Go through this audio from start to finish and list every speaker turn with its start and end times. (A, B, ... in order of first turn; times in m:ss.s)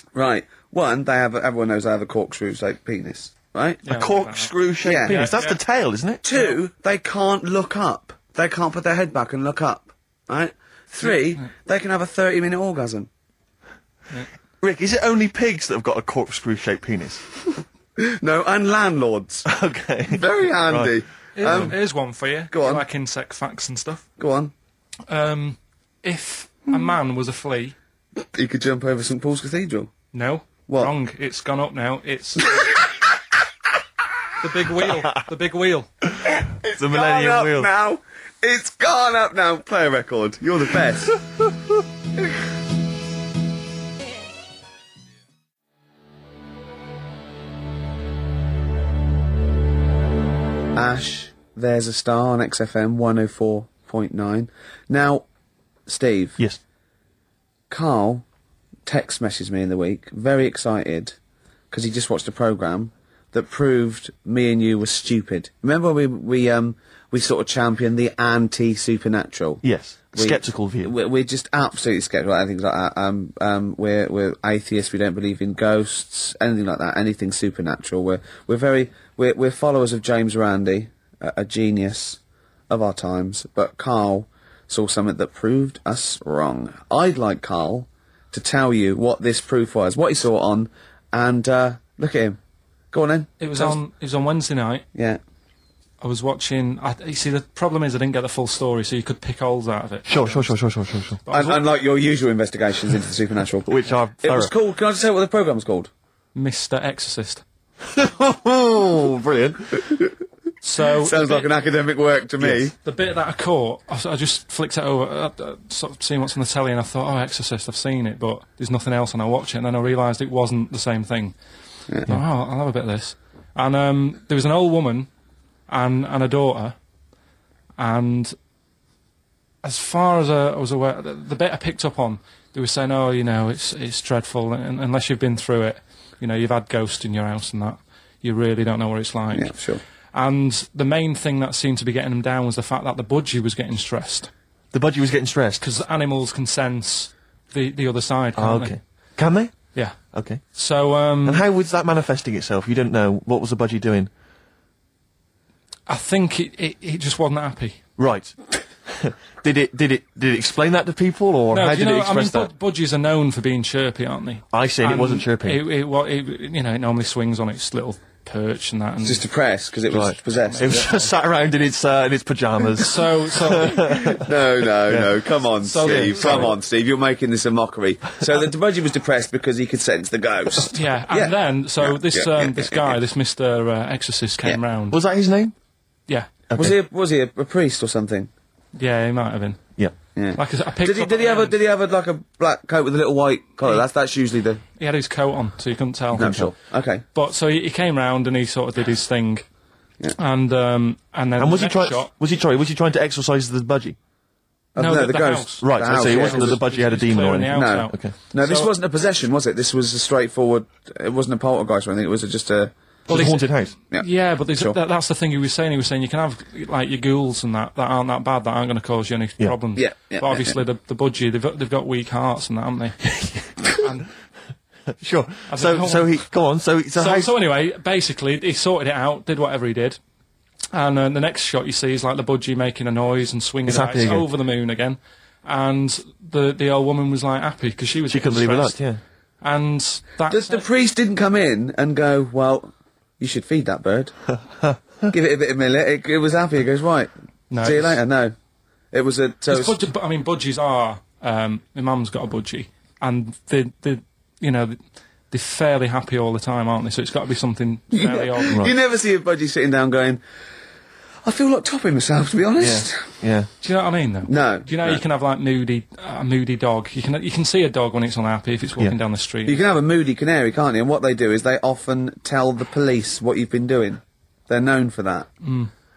0:00.1-0:03.8 A
0:03.8-0:05.6 B
0:03.9-0:06.2 C
0:04.8-0:05.2 A
0:06.2-0:13.1 A
0:11.0-0:11.4 B
0:14.6-0:17.2 C
0:18.0-0:19.5 A
0:19.4-0:20.9 C
0:20.1-0:21.8 A
0:21.4-0:24.0 B
0:21.4-0:21.7 C
0:22.5-0:22.8 A
0:24.2-0:24.5 A
0:25.1-0:27.8 B
0:28.3-0:29.9 A
0:30.1-0:32.7 B
0:34.4-0:35.9 B
0:36.2-0:41.2 A
0:36.7-0:37.7 C
0:50.7-0:55.2 A
0:55.9-0:56.4 A
0:57.7-0:58.2 A
0:58.8-1:01.2 A
1:01.7-1:09.6 A
1:09.6-1:10.9 C
1:10.1-1:32.4 A
1:32.9-1:33.8 A
1:33.4-1:34.8 B
1:34.9-1:35.2 A
1:36.0-1:40.5 B
1:40.1-1:41.2 C
1:41.2-1:41.6 B
1:41.3-1:43.7 A
1:43.6-1:44.5 C
1:44.2-1:45.9 A
1:46.3-1:47.4 B
1:47.8-1:50.0 C
1:50.6-1:51.5 B
1:51.0-1:52.7 A
1:52.8-2:01.3 B
2:02.1-2:05.1 B
2:05.7-2:06.7 B
2:07.8-2:08.3 B
2:09.6-2:19.6 B
2:19.3-2:19.8 A
2:20.1-2:24.3 B
2:24.7-2:25.6 C
2:25.6-2:28.8 B
2:28.4-2:30.4 C
2:30.5-2:31.4 B
2:31.2-2:34.1 C
2:35.9-2:37.8 B
2:38.0-2:42.5 C
2:41.5-2:49.2 B
2:44.5-2:45.6 C
2:49.0-2:50.8 A
2:49.9-2:54.3 C
2:50.5-2:51.0 B
2:52.8-2:54.2 B
2:54.1-3:03.0 A
2:55.6-2:56.6 B
2:55.8-2:56.5 C
3:00.6-3:05.0 B
3:04.9-3:05.5 C
3:06.5-3:06.7 C
3:06.5-3:08.3 A
3:08.7-3:09.6 B
3:10.1-3:14.6 A
3:10.4-3:11.6 B
3:14.8-3:16.5 B
3:16.1-3:17.0 A
3:16.2-3:16.5 C
3:17.1-3:19.4 B
3:20.2-3:22.1 B
3:21.4-3:24.0 C
3:24.7-3:26.6 A
3:24.8-3:28.7 B
3:25.6-3:28.1 C
3:27.5-3:32.7 A
3:33.1-3:33.7 C
3:33.1-3:43.1 B
3:33.9-3:34.8 A
3:39.7-3:40.6 A
3:43.2-3:43.9 C
3:43.6-3:44.1 B
3:45.0-3:47.3 C
3:45.5-3:46.2 B
3:47.0-3:50.0 B
3:50.7-3:58.8 B
3:53.7-3:54.3 C
3:58.1-3:59.0 C
3:59.4-4:00.6 B
4:00.3-4:04.1 A
4:05.1-4:07.1 A
4:07.5-4:08.0 B
4:07.6-4:08.3 A
4:08.9-4:09.8 A
4:09.5-4:14.8 B
4:15.3-4:18.7 B
4:17.9-4:20.2 A
4:21.2-4:23.1 A
4:22.6-4:23.5 C
4:23.6-4:29.6 B
4:24.3-4:25.0 A
4:29.4-4:35.3 A
4:35.4-4:35.7 B